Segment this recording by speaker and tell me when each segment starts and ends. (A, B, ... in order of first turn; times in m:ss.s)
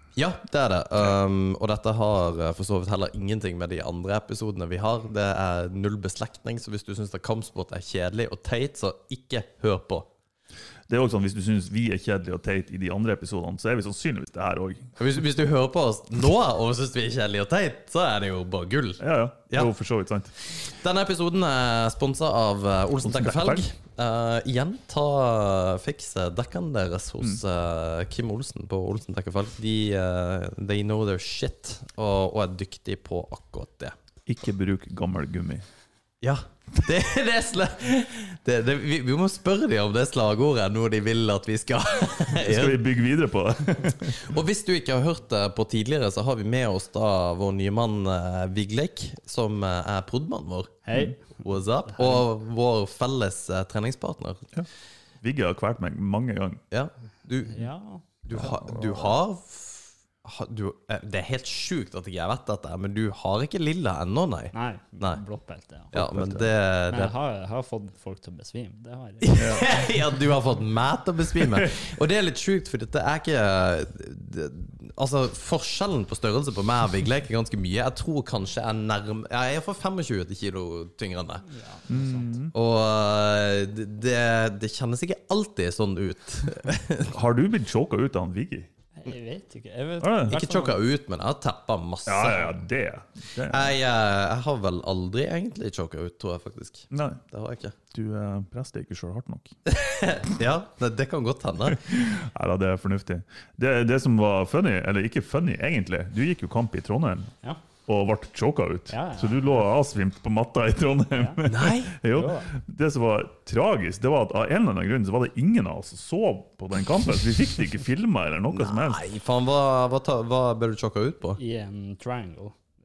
0:00.2-0:10.1 A
0:10.9-0:14.9 B
0:15.0-0:19.7 A
0:19.0-0:20.3 B
0:20.4-0:33.9 A
0:23.0-0:23.6 B
0:34.3-0:35.6 B
0:36.2-0:42.8 A
0:42.3-0:44.3 B
0:44.0-0:50.8 A
0:50.9-0:51.4 C
0:51.4-0:54.5 A
0:51.9-0:52.2 C
0:55.2-0:56.6 B
0:56.7-0:57.7 A
0:57.5-0:58.0 C
0:58.2-1:05.2 A
0:58.3-0:59.2 B
1:04.5-1:05.9 C
1:05.9-1:07.1 A
1:05.9-1:06.5 B
1:06.9-1:09.6 C
1:09.2-1:21.4 A
1:09.3-1:09.7 B
1:11.4-1:11.7 B
1:21.5-1:22.3 C
1:21.9-1:22.5 B
1:22.5-1:27.1 A
1:27.1-1:28.7 B
1:29.0-1:30.8 C
1:30.0-1:30.4 B
1:30.3-1:32.5 A
1:32.0-1:33.8 B
1:33.5-1:37.8 A
1:36.9-1:37.2 B
1:37.9-1:39.5 B
1:39.6-1:41.8 A
1:41.7-1:47.3 B
1:47.9-1:59.0 B
1:48.9-1:49.4 C
1:51.2-1:51.4 C
1:51.4-1:52.0 A
1:52.0-1:52.5 C
1:58.5-2:01.4 A
2:01.4-2:02.6 C